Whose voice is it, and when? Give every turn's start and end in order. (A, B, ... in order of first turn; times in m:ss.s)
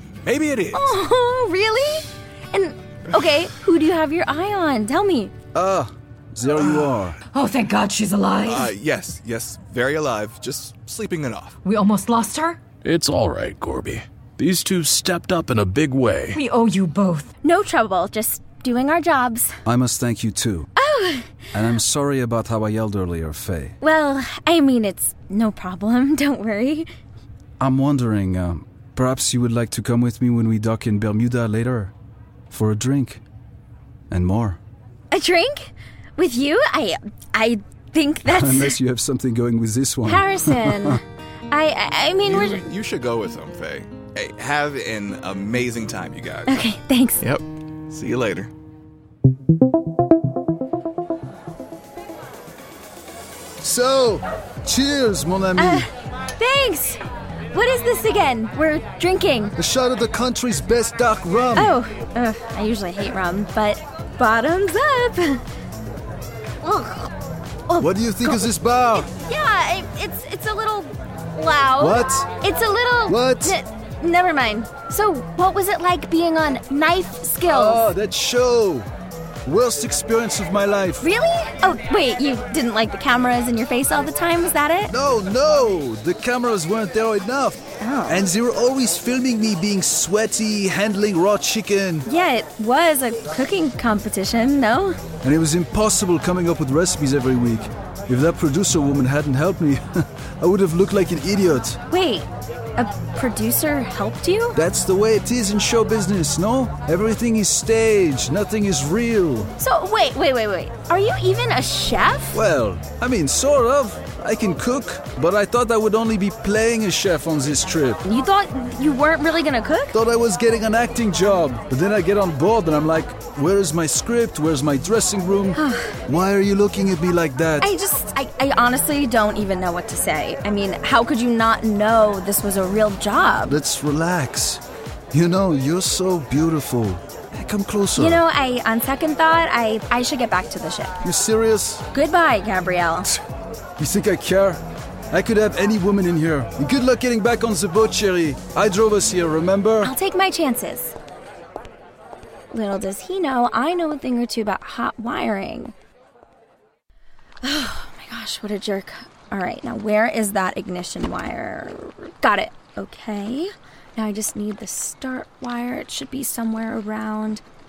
0:00.2-0:01.0 A
0:00.7-0:05.3 B
0:05.5-0:07.2 C
0:06.6-0:06.9 A
0:07.3-0:08.7 D
0:08.4-0:11.6 A
0:11.6-0:12.6 D
0:12.8-0:16.4 E
0:16.3-0:17.3 D
0:17.4-0:19.5 B
0:19.7-0:20.7 C
0:20.8-0:21.3 B
0:21.5-0:23.8 C
0:23.8-0:26.9 B
0:27.6-0:31.9 C
0:32.5-0:33.2 C
0:34.1-0:34.6 C
0:35.1-0:38.8 B
0:38.3-0:41.0 C
0:40.0-0:42.6 B
0:42.2-0:46.6 A
0:46.5-0:47.2 B
0:47.2-0:48.5 A
0:53.6-0:55.9 C
0:55.6-0:57.0 B
0:57.5-0:59.5 B
0:59.6-1:01.8 C
1:01.6-1:05.4 B
1:06.6-1:07.1 B
1:07.7-1:08.5 B
1:07.8-1:09.1 C
1:09.1-1:17.9 B
1:11.8-1:12.3 C
1:13.1-1:13.6 C
1:17.5-1:18.9 C
1:19.4-1:21.0 C
1:21.0-1:24.9 B
1:24.9-1:32.1 C
1:27.8-1:28.3 B
1:32.1-1:35.0 B
1:35.2-1:41.8 C
1:41.9-1:44.6 B
1:44.6-1:49.5 C
1:49.6-1:52.4 B
1:52.3-1:58.0 C
1:58.0-1:59.9 B
1:59.9-2:07.7 C
2:05.6-2:06.0 B
2:07.6-2:13.6 B
2:13.5-2:18.2 C
2:18.0-2:20.9 B
2:21.0-2:21.8 C
2:21.9-2:23.1 B
2:23.8-2:24.6 C
2:25.1-2:29.9 C
2:29.8-2:31.0 B
2:32.5-2:35.7 B
2:37.4-2:47.4 B